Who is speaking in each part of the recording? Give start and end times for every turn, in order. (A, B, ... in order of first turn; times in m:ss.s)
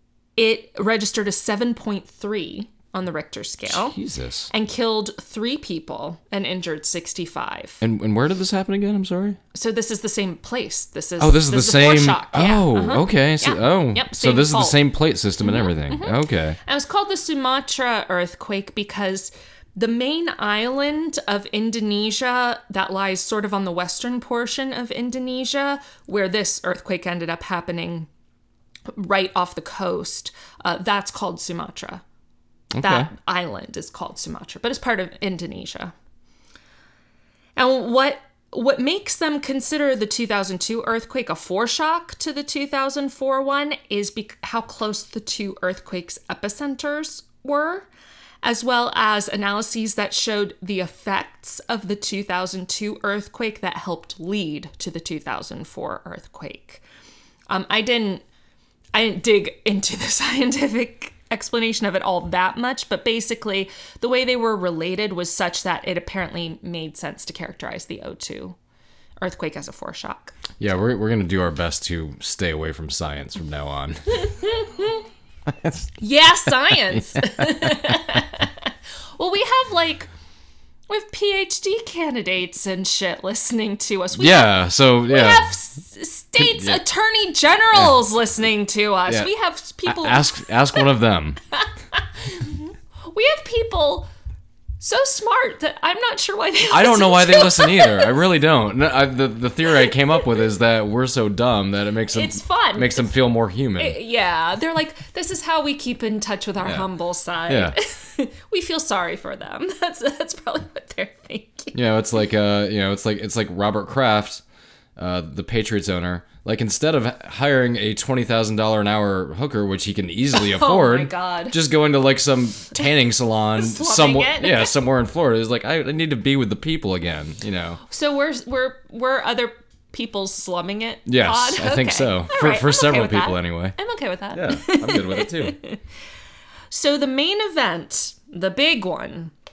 0:00.4-0:04.0 A
0:03.7-0:04.5 B
0:04.5-0:07.8 A
0:07.8-0:09.4 B
0:09.5-0:28.1 A
0:11.2-0:16.6 B
0:28.9-0:32.0 A
0:32.7-0:33.1 B
0:32.8-0:35.9 A
0:37.6-0:47.9 A
0:48.4-0:56.8 A
0:57.5-0:58.2 A
0:58.9-1:08.6 A
1:09.2-1:10.4 A
1:10.6-1:14.1 B
1:14.2-1:15.0 A
1:15.5-1:15.9 B
1:16.0-1:20.1 A
1:17.0-1:17.9 B
1:20.9-1:30.9 A
1:24.2-1:25.5 B
1:26.4-1:26.8 B
1:29.9-1:31.4 B
1:31.5-1:34.1 A
1:34.8-1:38.1 A
1:36.7-1:44.0 B
1:42.1-1:43.2 A
1:43.8-1:51.8 A
1:47.5-1:47.8 B
1:51.7-1:54.4 B
1:55.0-2:07.8 B
2:00.3-2:01.6 A
2:03.5-2:04.8 A
2:07.9-2:15.8 A
2:11.1-2:13.8 B
2:14.3-2:15.6 B
2:16.7-2:19.3 A